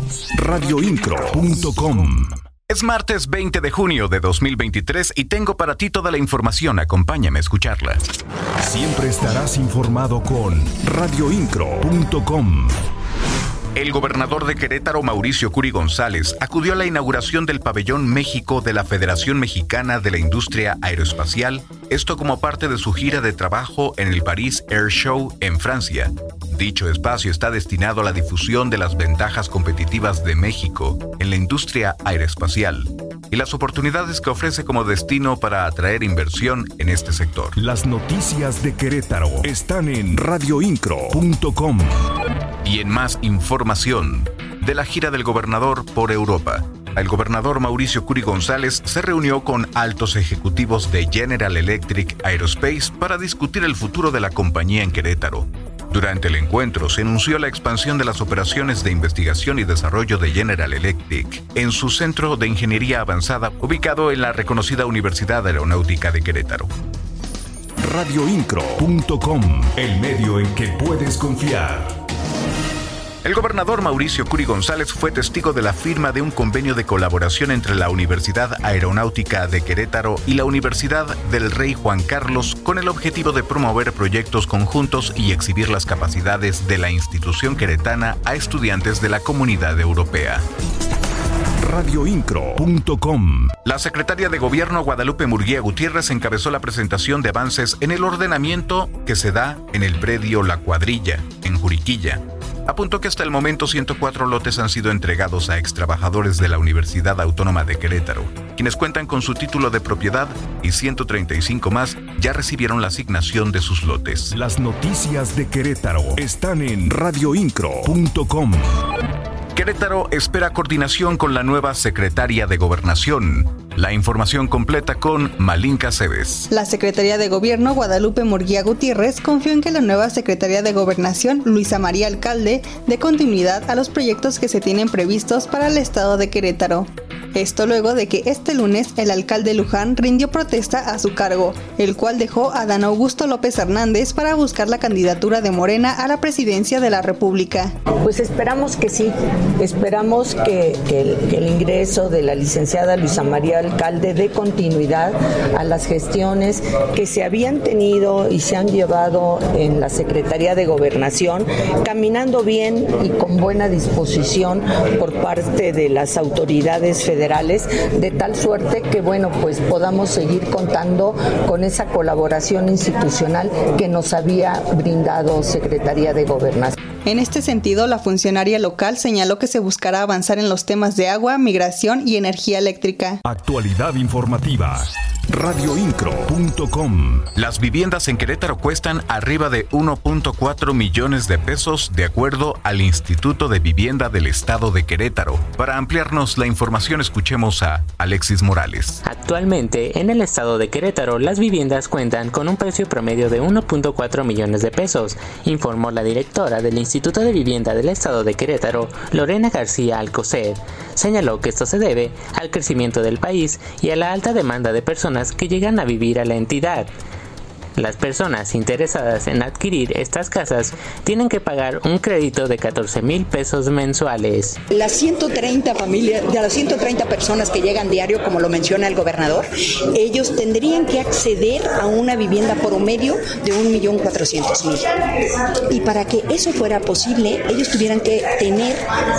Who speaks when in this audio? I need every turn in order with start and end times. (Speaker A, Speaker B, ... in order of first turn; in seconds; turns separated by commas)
Speaker A: 0.3-2.4, Speaker B: 2.7-8.0, Speaker A: 8.6-12.8, Speaker B: 13.8-37.6, Speaker A: 37.6-42.0, Speaker B: 42.6-66.7, Speaker A: 67.8-71.9, Speaker B: 73.2-90.5, Speaker A: 91.6-93.6, Speaker B: 93.7-114.3, Speaker A: 114.3-118.8, Speaker B: 119.5-126.5, Speaker C: 126.5-147.7, Speaker D: 148.0-176.8, Speaker C: 177.1-183.2, Speaker A: 183.2-187.3, Speaker B: 187.4-199.0, Speaker E: 199.1-216.9, Speaker E: 217.8-224.6, Speaker F: 224.7-234.9, Speaker F: 235.7-238.8